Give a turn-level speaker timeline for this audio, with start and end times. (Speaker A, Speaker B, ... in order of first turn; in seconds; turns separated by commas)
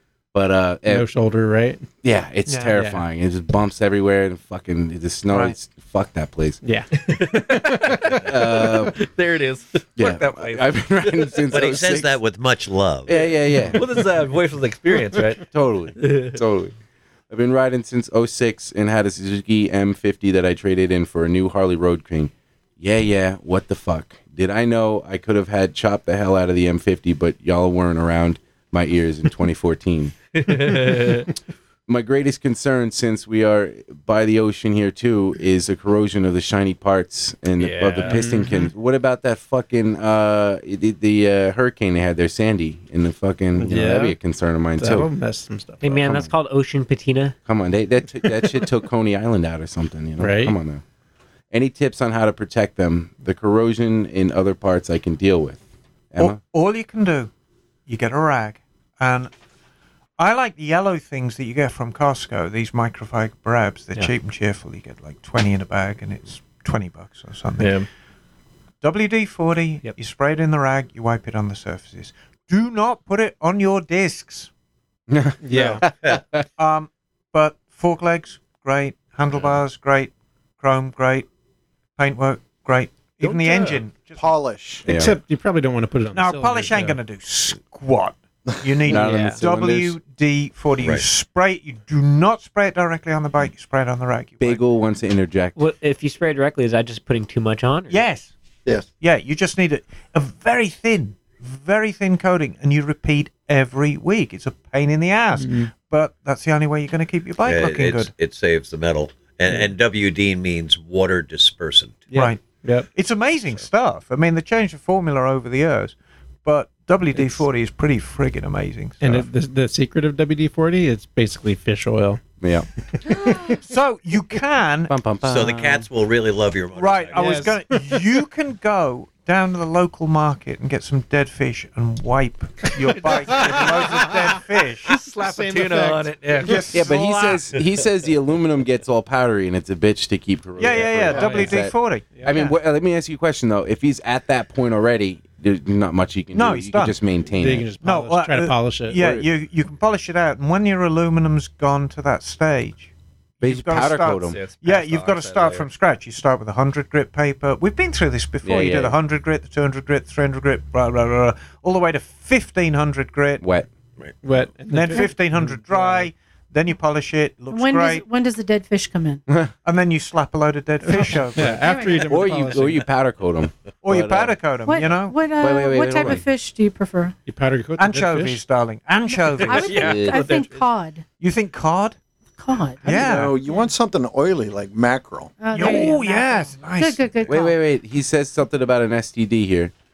Speaker A: 0.3-1.1, Speaker B: 0.9-1.9, Speaker A: 2.0-6.6, Speaker C: 2.5-2.7, Speaker B: 2.7-3.1, Speaker C: 5.3-5.6, Speaker B: 6.6-8.2, Speaker D: 7.0-11.4, Speaker A: 8.1-9.0, Speaker A: 10.0-12.2, Speaker E: 11.5-13.2, Speaker A: 13.1-13.9, Speaker D: 13.2-16.4, Speaker A: 15.5-16.7, Speaker A: 17.3-30.1, Speaker D: 30.4-31.3, Speaker A: 31.9-45.1, Speaker D: 37.6-38.7, Speaker B: 43.5-44.2, Speaker B: 44.8-46.2, Speaker F: 45.8-47.4, Speaker A: 46.0-46.3, Speaker A: 47.5-50.8, Speaker B: 50.2-50.6, Speaker A: 51.5-55.6, Speaker A: 56.1-56.4, Speaker C: 56.2-57.3, Speaker C: 57.9-59.3, Speaker C: 60.2-67.8, Speaker D: 67.6-67.9, Speaker C: 68.8-74.5, Speaker A: 75.1-76.5, Speaker B: 75.4-75.9, Speaker C: 76.6-81.3, Speaker C: 82.0-84.3, Speaker B: 83.2-83.8, Speaker G: 84.2-84.9, Speaker B: 84.8-87.0, Speaker A: 84.9-85.2, Speaker C: 86.1-94.6, Speaker A: 88.9-90.0, Speaker B: 89.1-89.4, Speaker E: 90.8-91.1, Speaker A: 94.4-95.6, Speaker F: 95.6-98.0, Speaker C: 97.9-98.3, Speaker C: 99.0-108.1, Speaker B: 105.3-105.7, Speaker E: 107.4-112.2, Speaker B: 112.1-112.9, Speaker C: 112.1-119.3, Speaker B: 119.0-122.2, Speaker A: 122.4-122.7, Speaker B: 123.1-123.6, Speaker C: 123.6-125.0, Speaker A: 124.9-125.9, Speaker E: 125.2-127.4, Speaker C: 126.7-134.9, Speaker B: 127.2-128.1, Speaker B: 132.6-136.8, Speaker D: 135.2-136.6, Speaker C: 136.4-137.6, Speaker A: 136.7-147.7, Speaker C: 140.6-142.5, Speaker B: 141.0-142.5, Speaker C: 146.3-147.0, Speaker B: 147.3-149.3, Speaker C: 147.8-163.4, Speaker A: 153.4-154.5, Speaker D: 154.2-155.7, Speaker A: 158.4-159.0, Speaker A: 163.4-163.7, Speaker B: 164.2-166.1, Speaker C: 164.7-168.1, Speaker H: 167.5-169.2, Speaker C: 169.7-171.7, Speaker B: 170.8-172.9, Speaker H: 171.5-172.2, Speaker A: 172.0-174.4, Speaker C: 173.8-175.3, Speaker H: 174.6-177.2, Speaker A: 175.3-176.2, Speaker B: 177.3-178.4, Speaker C: 177.8-180.1, Speaker D: 179.4-180.7, Speaker H: 179.4-181.1, Speaker A: 179.8-180.3, Speaker C: 181.2-182.0, Speaker H: 182.4-183.1, Speaker G: 182.8-185.4, Speaker C: 182.9-183.3, Speaker H: 185.4-187.6, Speaker C: 185.5-187.3, Speaker A: 187.3-189.7